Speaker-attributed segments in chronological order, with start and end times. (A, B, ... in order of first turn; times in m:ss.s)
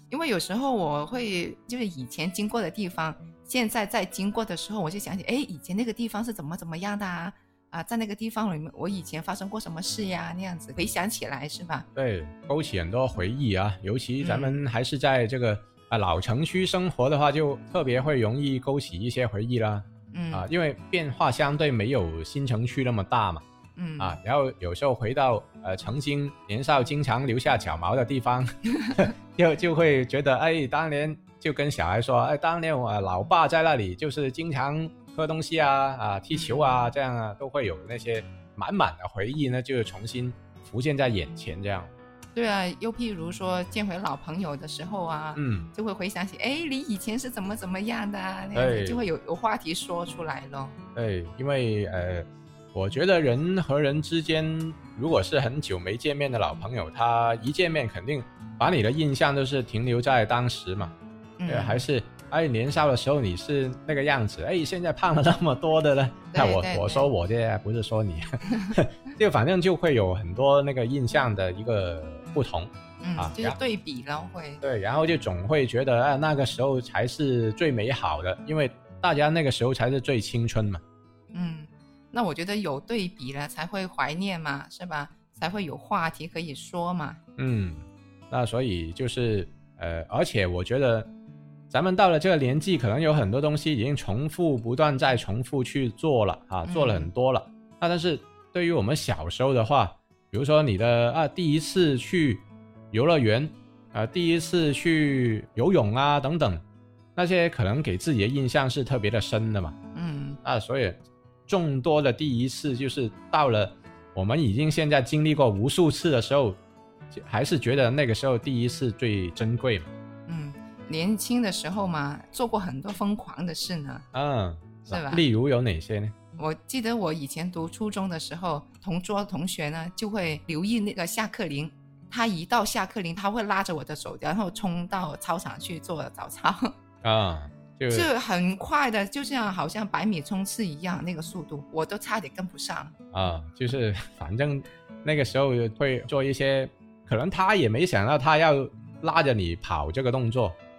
0:00.1-0:11.9 A
0:12.0-0:23.4 B
0:14.2-0:14.6 A
0:20.1-0:20.5 A
0:23.8-0:24.2 A
0:24.0-0:41.9 B
0:36.3-0:36.9 A
0:42.4-0:50.8 A
0:45.4-0:45.7 B
0:48.5-0:49.0 B
0:51.0-1:00.9 B
1:01.4-1:01.8 A
1:01.5-1:13.6 B
1:06.3-1:07.1 A
1:13.0-1:14.6 A
1:14.6-1:20.8 B
1:21.3-1:27.2 A
1:27.4-1:31.1 B
1:31.7-1:46.6 B
1:36.6-1:37.1 A
1:47.2-1:49.8 B
1:50.0-1:50.4 A
1:50.4-1:56.6 B
1:57.1-1:59.9 B
2:00.3-2:04.0 A
2:04.1-2:06.1 B
2:04.9-2:05.2 A
2:06.4-2:16.7 A
2:17.0-2:18.1 B
2:17.9-2:22.9 A
2:23.1-2:30.6 B